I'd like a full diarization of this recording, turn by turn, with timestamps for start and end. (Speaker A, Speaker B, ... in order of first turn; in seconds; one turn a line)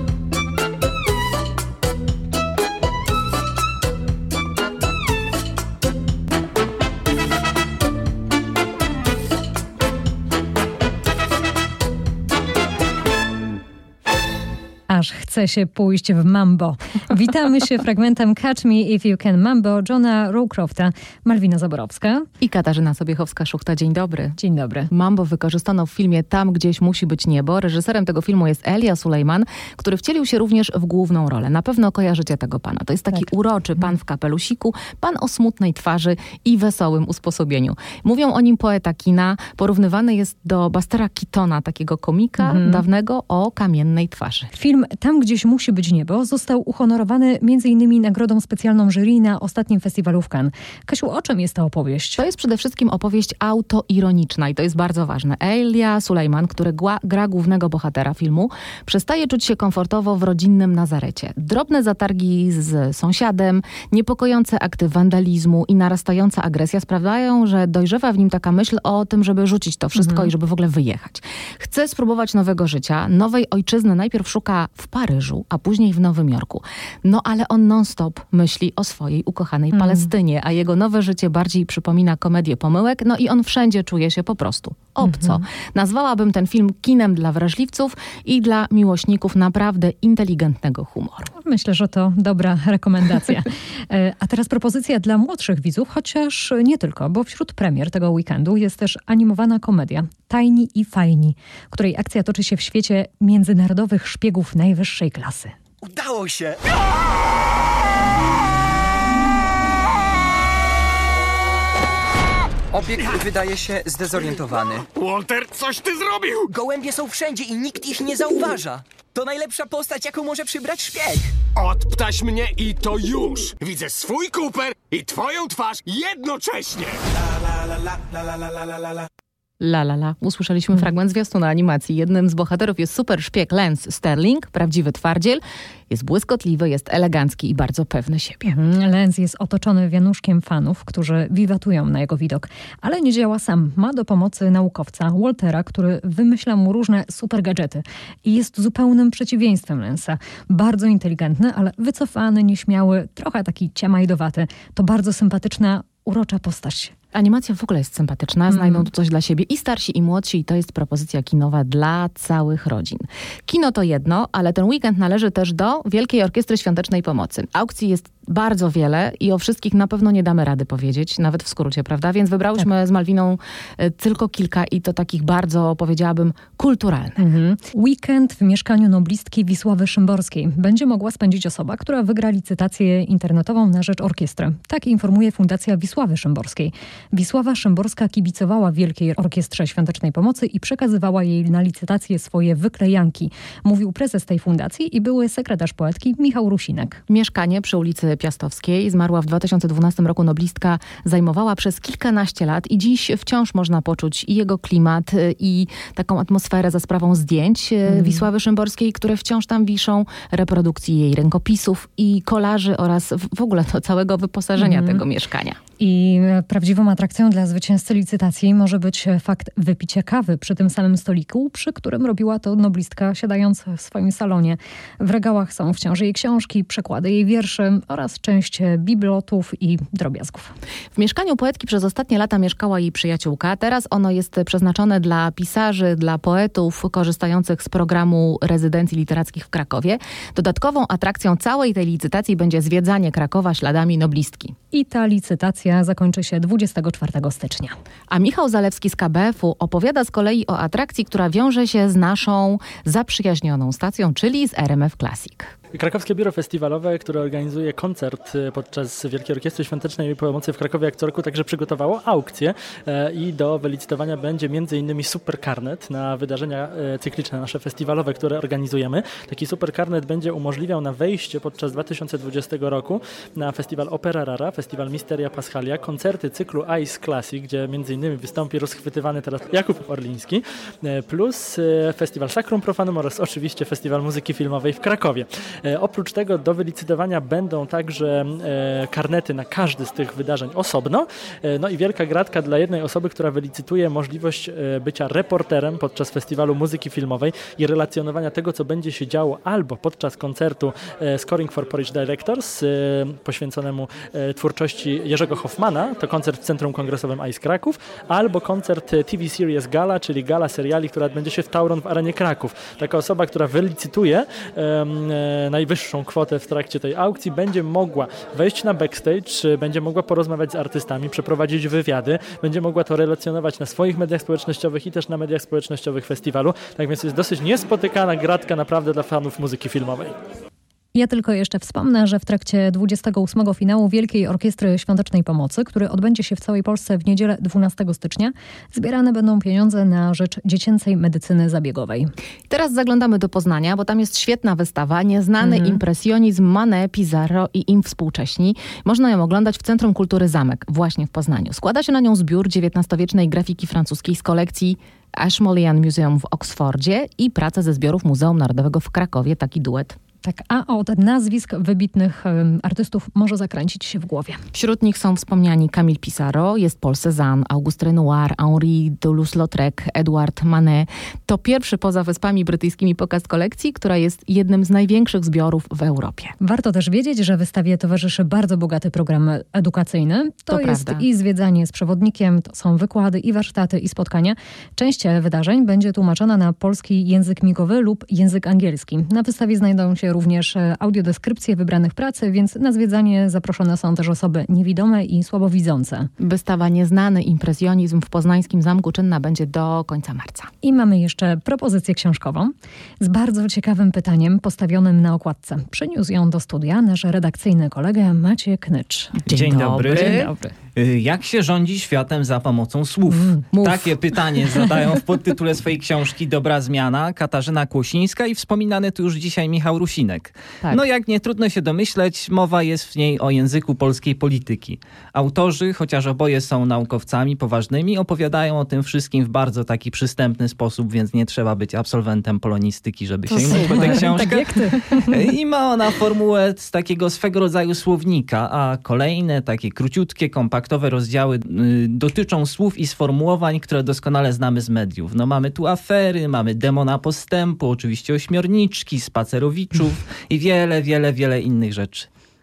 Speaker A: 14.9-22.2
Speaker B: 22.4-24.4
Speaker A: 24.4-24.9
Speaker B: 24.9-44.5
Speaker A: 42.4-42.9
Speaker A: 44.5-52.2
Speaker B: 52.2-91.3
Speaker A: 70.0-70.3
Speaker A: 85.0-85.4
Speaker A: 91.4-105.6
Speaker C: 105.8-106.6
Speaker C: 112.7-114.9
Speaker D: 114.9-116.5
Speaker C: 116.5-121.4
Speaker D: 121.5-127.0
Speaker D: 128.5-129.0
Speaker B: 129.6-138.5
Speaker A: 138.5-156.9
Speaker B: 157.1-177.2
Speaker A: 158.5-158.9
Speaker A: 177.2-197.0
Speaker B: 197.1-215.6
Speaker A: 207.9-208.3
Speaker A: 214.6-215.0
Speaker A: 215.8-230.5
Speaker B: 230.9-244.6
Speaker A: 244.7-247.8
Speaker B: 248.1-255.5
Speaker E: 255.8-330.2
Speaker A: 330.9-342.1
Speaker B: 342.5-360.0
Speaker A: 345.4-345.8
Speaker A: 360.2-364.4
Speaker B: 364.5-376.4
Speaker A: 376.4-396.1
Speaker B: 380.5-381.1
Speaker B: 396.2-400.5
Speaker A: 400.6-409.2
Speaker B: 409.3-410.3
Speaker F: 409.3-452.1
Speaker A: 409.8-410.5
Speaker A: 413.1-413.4
Speaker B: 413.5-413.9
Speaker A: 433.3-435.3